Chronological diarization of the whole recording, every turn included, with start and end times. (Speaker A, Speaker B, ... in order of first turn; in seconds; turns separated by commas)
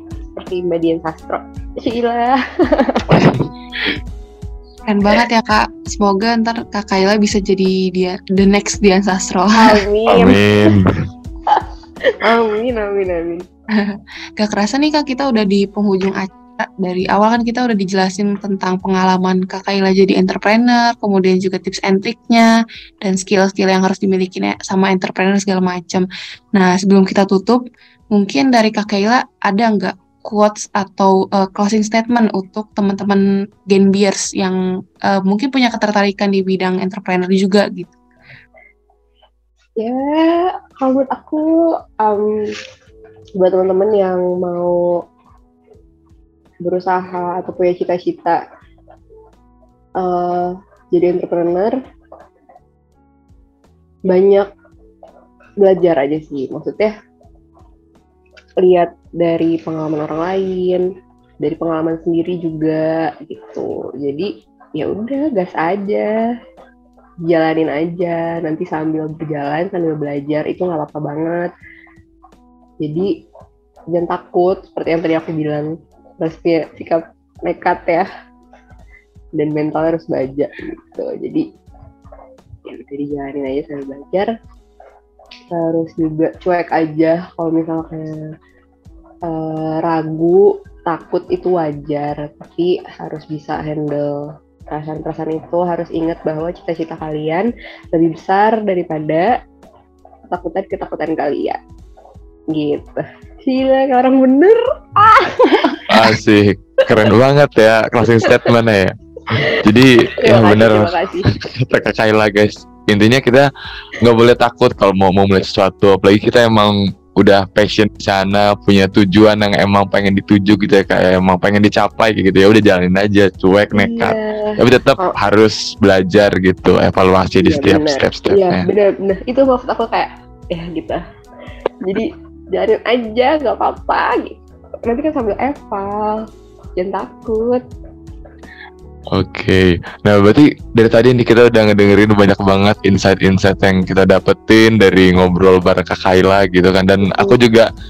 Speaker A: 0.3-3.3, Speaker B: 4.9-9.8, Speaker A: 9.5-10.4, Speaker C: 10.1-11.0, Speaker A: 12.2-13.5, Speaker B: 13.7-37.9, Speaker A: 39.8-42.6, Speaker A: 43.4-45.0, Speaker A: 46.6-48.4, Speaker A: 50.0-51.8, Speaker A: 54.1-54.5, Speaker A: 55.6-56.9, Speaker A: 58.6-60.9, Speaker A: 61.4-66.1, Speaker A: 67.3-71.5, Speaker A: 72.8-73.1, Speaker A: 73.9-75.7, Speaker A: 76.2-78.1, Speaker A: 79.4-81.5, Speaker A: 82.7-84.3, Speaker A: 85.5-88.3, Speaker A: 89.3-99.3, Speaker A: 100.3-101.6, Speaker A: 102.5-106.1, Speaker C: 105.9-128.7, Speaker A: 108.2-108.5, Speaker A: 110.2-111.3, Speaker A: 123.7-125.2, Speaker A: 127.4-131.0, Speaker A: 131.8-136.2, Speaker A: 136.8-137.6, Speaker C: 139.1-147.7, Speaker A: 147.1-147.4